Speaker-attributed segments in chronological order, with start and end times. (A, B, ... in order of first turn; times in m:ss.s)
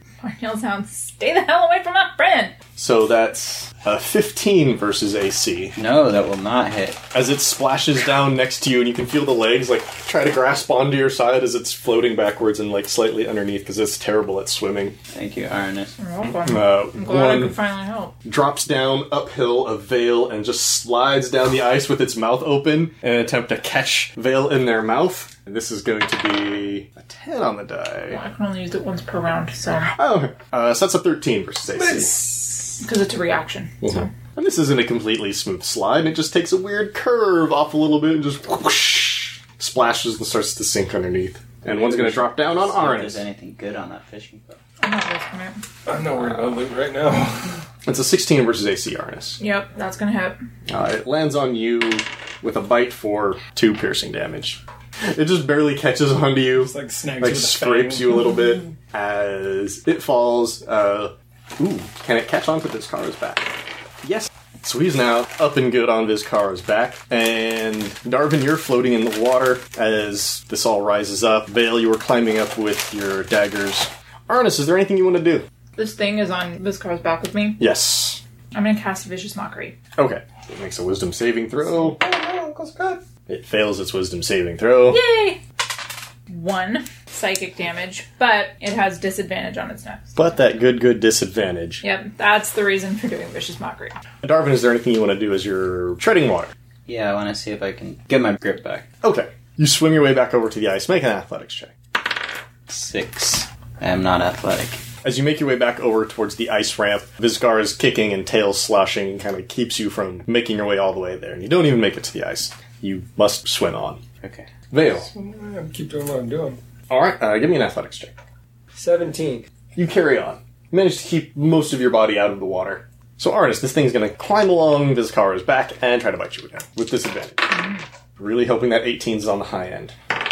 0:00.2-0:02.5 A
0:02.8-0:05.8 B
0:05.8-0:07.0 C
0:07.1-0:15.0 B
0:15.1-0:15.9 C
0:16.0-0:18.1 A
0:16.4-0:17.6 B
0:18.2-0:28.2 B
0:28.1-0:29.9 A
0:29.9-0:32.2 B
0:31.8-0:32.8 D
0:32.7-0:34.1 A
0:33.8-0:43.2 B
0:41.8-0:44.6 C
0:44.8-0:45.6 A
0:45.9-0:47.6 D
0:46.1-0:46.6 B
0:47.8-0:49.4 B
0:49.4-0:50.4 A
0:50.7-1:15.4 B
0:56.6-0:58.3 D
1:15.8-1:17.6 A
1:17.6-1:18.2 B
1:18.5-1:19.8 A
1:20.0-1:22.0 B
1:21.8-1:23.0 D
1:23.3-1:25.0 B
1:24.9-1:25.4 A
1:26.3-1:30.4 A
1:30.2-1:31.8 B
1:31.8-1:34.0 A
1:34.2-1:36.5 B
1:36.9-1:38.9 C
1:39.0-1:41.7 B
1:42.7-1:44.8 C
1:45.0-1:54.0 B
1:54.2-1:54.5 C
1:54.7-1:55.1 B
1:55.0-1:56.6 D
1:56.9-1:58.2 B
1:58.7-1:59.5 D
1:59.8-2:07.7 B
2:08.2-2:10.0 B